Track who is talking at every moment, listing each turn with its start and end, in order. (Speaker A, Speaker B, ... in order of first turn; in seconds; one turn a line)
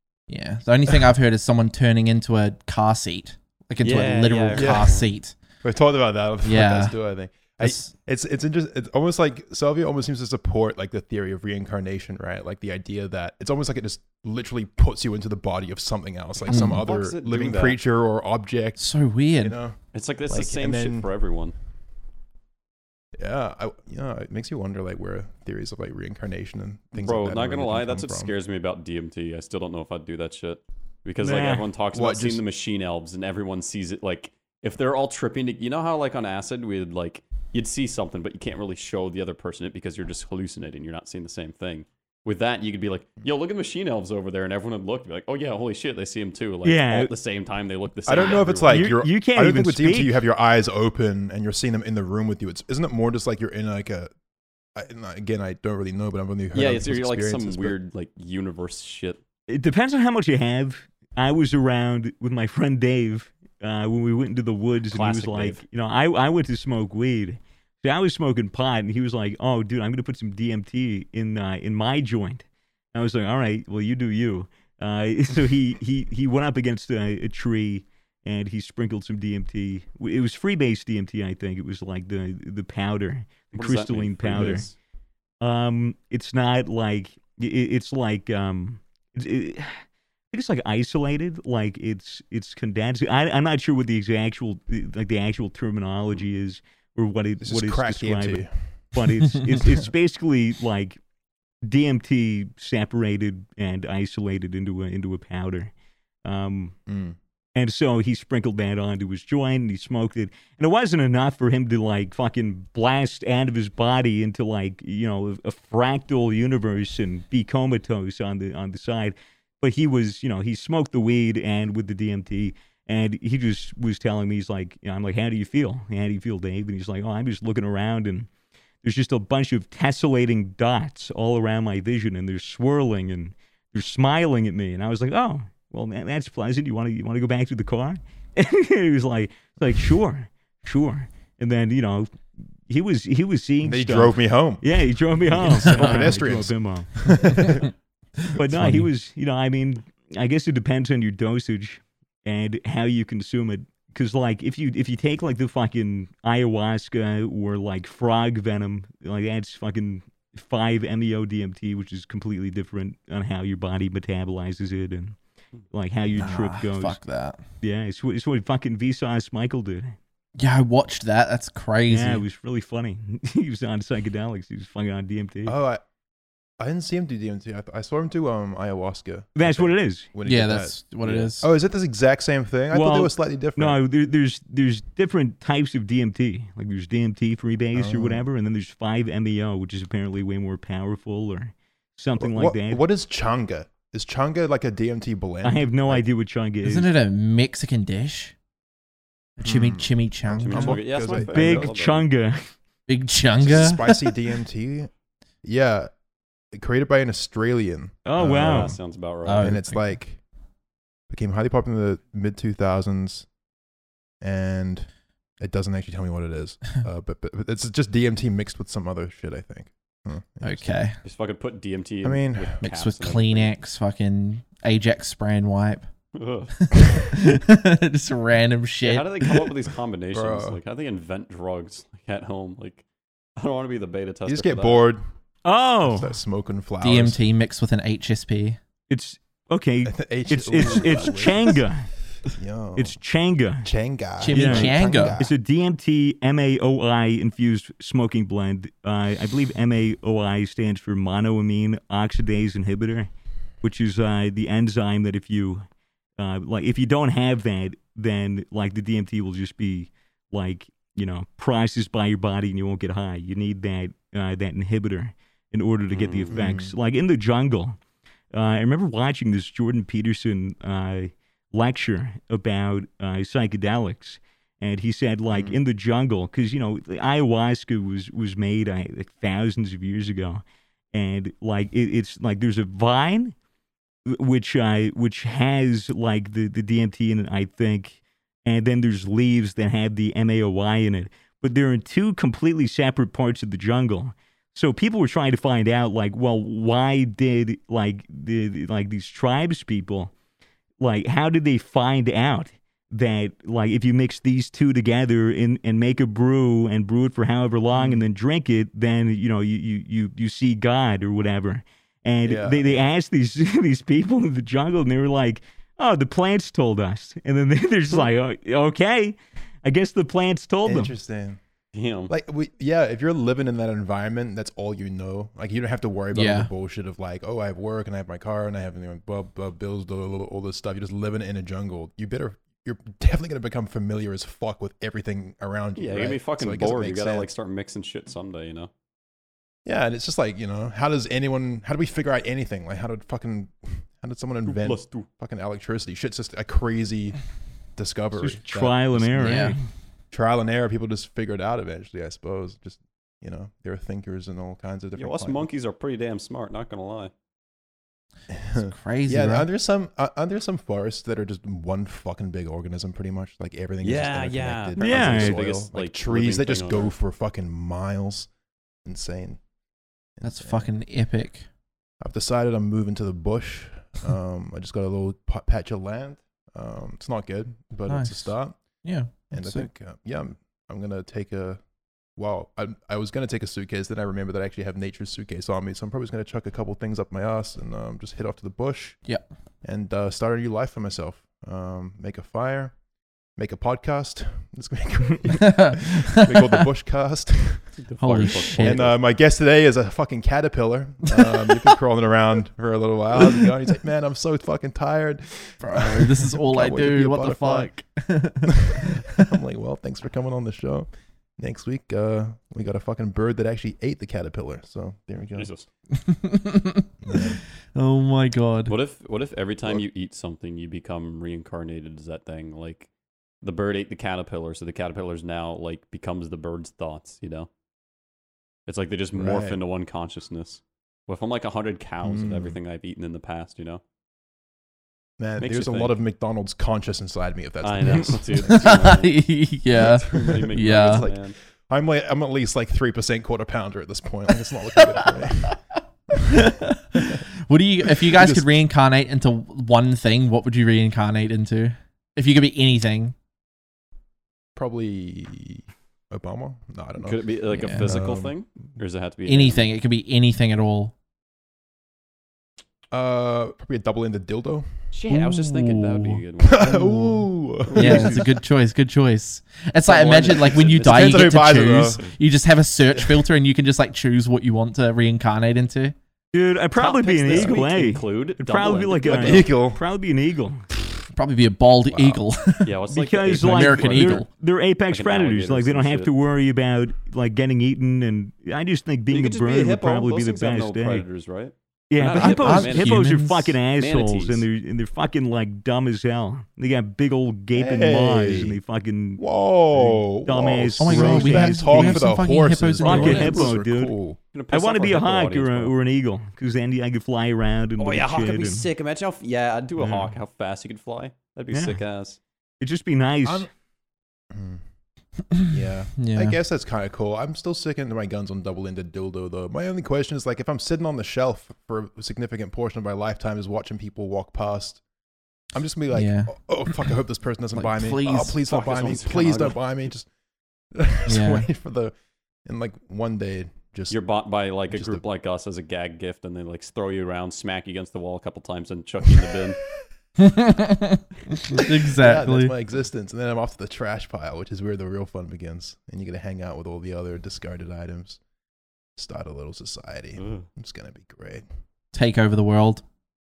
Speaker A: 0.3-5.3
Speaker B: 3.8-5.0
Speaker C: 4.5-5.0
Speaker C: 5.6-18.8
Speaker A: 6.4-6.9
Speaker A: 7.6-7.9
Speaker B: 16.4-17.8
Speaker A: 16.5-16.8
Speaker A: 18.8-19.6
Speaker C: 19.4-19.8
Speaker B: 19.9-21.5
Speaker C: 20.3-21.1
Speaker C: 23.2-28.3
Speaker B: 27.0-48.9
Speaker D: 31.2-31.7
Speaker C: 31.9-32.4
Speaker D: 46.6-47.1
Speaker C: 48.0-54.1
Speaker D: 48.6-50.2
Speaker C: 54.7-57.8
Speaker B: 56.5-59.2
Speaker D: 59.5-84.7
Speaker B: 64.9-65.6
Speaker B: 83.5-84.7
Speaker D: 85.4-101.0
Speaker C: 97.4-98.5
Speaker D: 101.6-105.7
Speaker D: 106.2-106.8
Speaker C: 106.9-107.2
Speaker D: 107.5-128.3
Speaker D: 128.8-142.1
Speaker D: 142.7-147.6
Speaker C: 143.6-144.6
Speaker C: 145.3-147.7
Speaker A: 145.5-146.1
Speaker D: 148.3-165.2
Speaker A: 148.5-148.9
Speaker D: 165.7-167.0
Speaker A: 166.1-167.4
Speaker D: 167.6-169.9
Speaker A: 170.4-172.2
Speaker D: 171.9-175.6
Speaker C: 175.4-175.8
Speaker C: 176.6-183.8
Speaker D: 179.4-180.1
Speaker A: 180.2-181.5
Speaker D: 182.7-192.8
Speaker C: 187.7-188.2
Speaker C: 192.2-196.0
Speaker D: 195.4-196.9
Speaker A: 196.6-198.3
Speaker A: 199.4-200.8
Speaker C: 199.4-201.7
Speaker B: 200.4-202.1
Speaker D: 201.1-202.5
Speaker A: 202.9-204.1
Speaker C: 203.4-204.9
Speaker C: 205.4-205.9
Speaker C: 206.5-208.8
Speaker D: 208.1-208.8
Speaker B: 208.4-209.5
Speaker A: 209.2-209.9
Speaker C: 209.4-210.2
Speaker C: 211.1-213.2
Speaker C: 214.2-214.9
Speaker C: 215.4-220.7
Speaker A: 220.4-221.0
Speaker B: 221.0-223.5
Speaker C: 222.0-222.6
Speaker A: 222.6-225.9
Speaker B: 226.1-226.8
Speaker A: 226.6-229.3
Speaker B: 228.8-232.8
Speaker C: 230.1-230.6
Speaker B: 233.4-234.8
Speaker C: 234.3-235.0
Speaker D: 235.4-236.2
Speaker C: 235.8-237.2
Speaker A: 236.8-238.6
Speaker D: 238.9-241.9
Speaker C: 239.9-241.6
Speaker C: 242.3-242.9
Speaker D: 242.8-243.7
Speaker C: 243.6-245.3
Speaker A: 244.2-245.2
Speaker D: 244.3-253.1
Speaker D: 253.6-255.6
Speaker D: 256.2-267.8
Speaker B: 265.9-266.4
Speaker C: 266.3-266.7
Speaker D: 268.3-283.4
Speaker C: 275.3-275.6
Speaker D: 284.1-300.1
Speaker D: 300.8-320.9
Speaker C: 307.7-308.0
Speaker C: 312.2-312.8
Speaker C: 320.6-321.4
Speaker B: 321.7-322.1
Speaker C: 322.1-337.3
Speaker A: 326.1-326.5
Speaker B: 335.8-338.7
Speaker C: 339.6-347.2
Speaker B: 344.4-345.1
Speaker C: 347.8-349.4
Speaker D: 348.2-349.6
Speaker A: 349.2-349.5
Speaker C: 350.1-355.5
Speaker B: 354.9-357.1
Speaker C: 358.3-368.3
Speaker A: 358.6-359.5
Speaker B: 363.8-366.9
Speaker D: 364.8-365.4
Speaker C: 368.9-369.4
Speaker C: 370.2-370.7
Speaker A: 370.2-371.4
Speaker C: 372.0-378.6
Speaker A: 377.9-379.7
Speaker C: 379.3-381.6
Speaker C: 382.1-389.0
Speaker C: 389.6-392.7
Speaker C: 393.4-397.8
Speaker A: 395.3-396.6
Speaker B: 397.8-399.0
Speaker A: 398.0-398.9
Speaker C: 398.5-407.7
Speaker A: 401.1-401.6
Speaker A: 405.6-409.4
Speaker C: 408.5-415.5
Speaker B: 415.4-415.6
Speaker A: 415.9-418.7
Speaker C: 417.0-417.4
Speaker B: 418.7-422.9
Speaker B: 423.4-427.5
Speaker B: 428.7-433.8
Speaker C: 429.1-429.6
Speaker C: 432.0-432.6
Speaker C: 435.2-438.9
Speaker B: 435.4-435.9
Speaker B: 437.6-441.4
Speaker A: 438.4-441.1
Speaker C: 440.3-445.6
Speaker A: 444.9-445.5
Speaker A: 446.3-453.1
Speaker C: 448.0-448.4
Speaker C: 454.6-458.4
Speaker B: 457.0-459.7
Speaker A: 457.5-458.0
Speaker A: 459.2-460.9
Speaker C: 462.9-464.7
Speaker B: 464.9-466.9
Speaker A: 465.1-475.9
Speaker C: 466.4-468.2
Speaker B: 467.6-468.2
Speaker D: 467.8-468.2
Speaker B: 469.9-472.1
Speaker C: 470.8-472.0
Speaker C: 472.9-473.2
Speaker D: 476.3-480.6
Speaker B: 476.7-479.5
Speaker C: 479.1-479.8
Speaker A: 481.1-484.3
Speaker C: 481.9-482.2
Speaker B: 482.6-484.2
Speaker D: 482.9-491.0
Speaker B: 484.9-486.1
Speaker B: 489.1-493.0
Speaker D: 491.9-499.2
Speaker A: 492.2-493.6
Speaker B: 493.8-494.4
Speaker C: 497.5-498.6
Speaker C: 499.2-504.2
Speaker D: 499.7-502.1
Speaker A: 500.8-503.4
Speaker D: 502.8-503.9
Speaker B: 502.8-503.5
Speaker B: 504.3-505.7
Speaker D: 504.5-508.7
Speaker B: 507.8-512.2
Speaker D: 509.8-510.1
Speaker D: 511.5-511.8
Speaker D: 512.6-513.5
Speaker C: 514.3-514.6
Speaker A: 515.3-516.4
Speaker C: 515.5-524.8
Speaker C: 525.5-530.1
Speaker A: 525.9-526.3
Speaker A: 527.5-528.4
Speaker B: 528.4-529.6
Speaker C: 530.7-531.9
Speaker A: 531.1-531.5
Speaker C: 532.4-534.0
Speaker B: 533.9-539.6
Speaker C: 534.7-535.0
Speaker A: 540.2-542.5
Speaker C: 541.5-548.2
Speaker C: 549.0-551.4
Speaker B: 550.2-550.5
Speaker A: 551.9-552.8